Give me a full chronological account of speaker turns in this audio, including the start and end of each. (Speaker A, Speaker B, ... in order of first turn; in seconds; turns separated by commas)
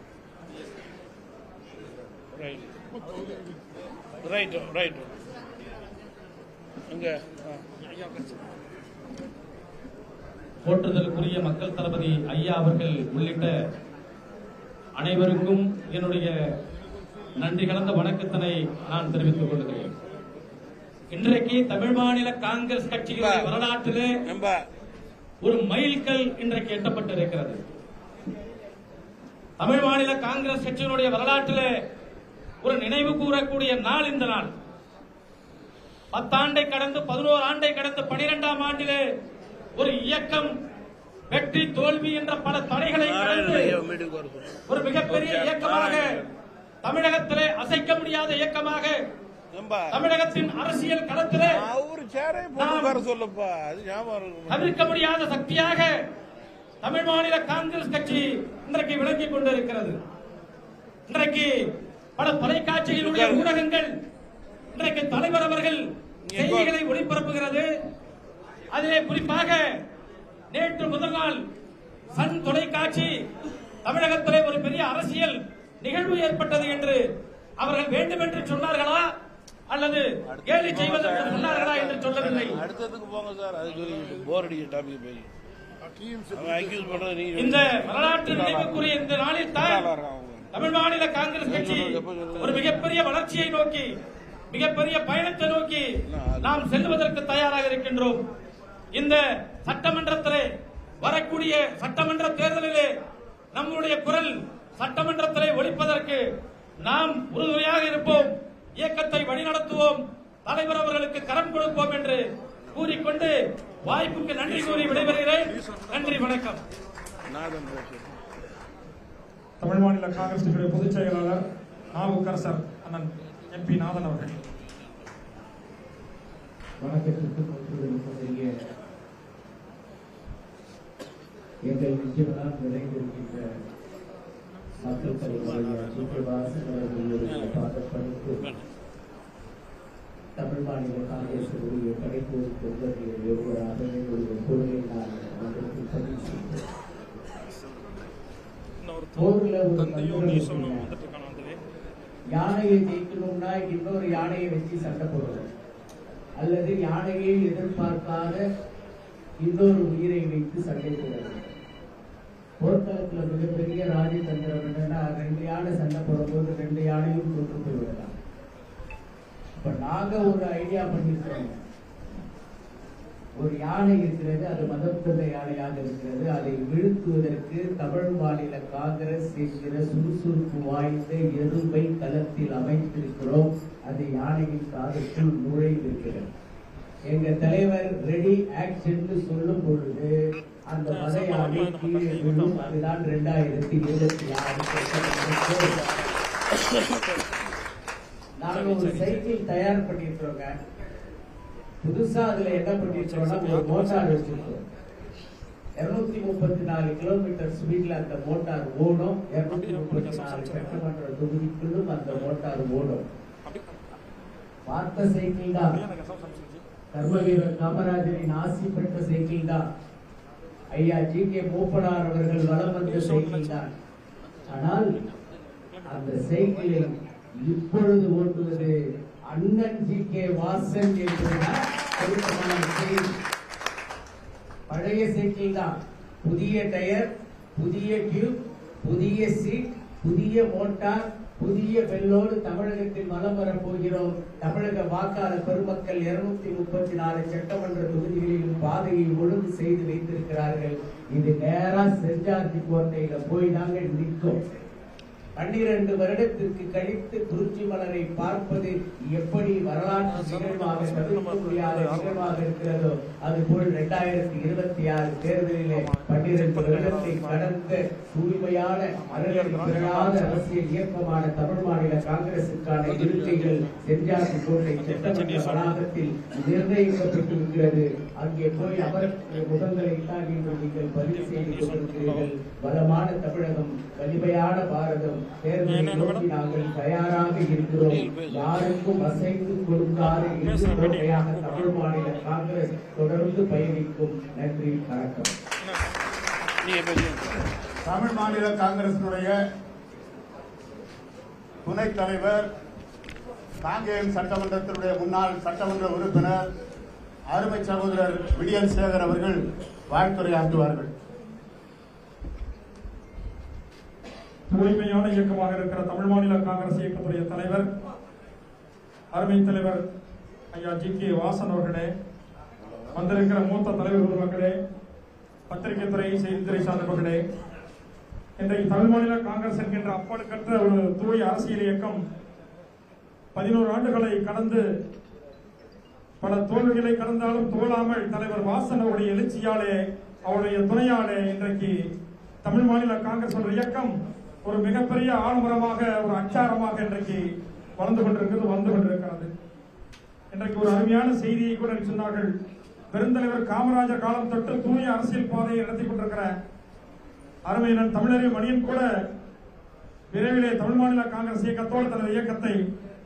Speaker A: 2.3-2.7, Speaker A: 4.2-5.1, Speaker A: 6.9-7.6, Speaker B: 10.6-13.5, Speaker B: 15.0-16.3, Speaker B: 17.4-19.9, Speaker B: 21.1-24.1, Speaker A: 23.1-23.5, Speaker A: 24.3-24.6, Speaker B: 25.4-27.6, Speaker B: 29.6-31.7, Speaker B: 32.6-34.5, Speaker B: 36.1-39.0, Speaker B: 39.8-40.5, Speaker B: 41.3-43.8, Speaker A: 43.0-46.3, Speaker B: 44.7-46.1, Speaker B: 46.8-49.0, Speaker A: 49.5-50.0, Speaker B: 49.9-51.6, Speaker A: 51.4-54.8, Speaker B: 52.6-53.0, Speaker B: 54.5-55.9, Speaker B: 56.8-60.0, Speaker B: 61.1-61.5, Speaker B: 62.2-63.9, Speaker A: 63.0-63.6, Speaker B: 64.7-65.8, Speaker A: 66.3-66.7, Speaker B: 66.3-67.6, Speaker B: 68.7-69.6, Speaker B: 70.5-71.4, Speaker B: 72.1-73.1, Speaker B: 73.8-77.0, Speaker B: 77.6-79.0, Speaker B: 79.7-82.6, Speaker A: 80.3-85.3, Speaker A: 86.3-88.9, Speaker B: 87.3-89.9, Speaker A: 89.5-90.5, Speaker B: 90.5-93.9, Speaker A: 91.5-92.8, Speaker B: 94.5-95.8, Speaker A: 96.1-96.6, Speaker B: 96.4-98.2, Speaker B: 98.9-100.5, Speaker B: 101.0-102.9, Speaker B: 103.5-106.2, Speaker B: 106.8-112.2, Speaker B: 112.7-116.6, Speaker A: 114.5-115.2, Speaker A: 117.3-118.0, Speaker C: 119.6-121.4, Speaker C: 121.9-124.3, Speaker D: 126.8-128.7, Speaker D: 131.6-133.5, Speaker D: 134.8-138.4, Speaker A: 137.2-137.6, Speaker D: 140.4-146.6, Speaker C: 148.8-151.6, Speaker D: 149.2-150.8, Speaker D: 152.3-155.5, Speaker D: 156.4-158.4, Speaker D: 159.4-161.5, Speaker D: 162.6-168.1, Speaker D: 169.6-171.6, Speaker D: 173.4-186.3, Speaker D: 187.1-190.1, Speaker D: 190.7-195.7, Speaker C: 190.8-192.8, Speaker D: 198.4-200.5, Speaker C: 198.5-199.3, Speaker D: 201.8-204.6, Speaker C: 202.9-204.5, Speaker D: 205.8-213.0, Speaker C: 209.5-210.8, Speaker C: 213.4-213.7, Speaker D: 214.7-215.8, Speaker C: 215.6-216.6, Speaker D: 216.9-219.6, Speaker D: 220.7-223.7, Speaker C: 222.8-223.5, Speaker D: 224.5-224.9, Speaker D: 225.8-233.1, Speaker D: 234.7-254.4, Speaker D: 255.3-295.3, Speaker C: 260.1-262.4, Speaker C: 265.7-267.4, Speaker C: 268.9-270.5, Speaker C: 274.8-275.7, Speaker C: 281.1-282.3, Speaker C: 285.6-286.2, Speaker A: 287.8-288.9, Speaker C: 290.4-291.7, Speaker A: 296.6-297.4, Speaker E: 297.9-299.4, Speaker E: 301.6-302.5, Speaker E: 303.6-306.4, Speaker E: 307.3-309.4, Speaker E: 309.9-310.9, Speaker C: 314.5-317.7, Speaker C: 319.1-319.8, Speaker C: 320.5-321.9, Speaker C: 322.9-324.5, Speaker C: 325.5-327.2, Speaker C: 328.4-332.0, Speaker C: 333.3-334.6, Speaker C: 336.2-341.7, Speaker C: 342.4-343.9, Speaker C: 344.4-347.2, Speaker C: 347.8-349.3, Speaker C: 350.3-352.3, Speaker C: 352.9-356.3, Speaker C: 357.5-358.9, Speaker C: 360.1-362.6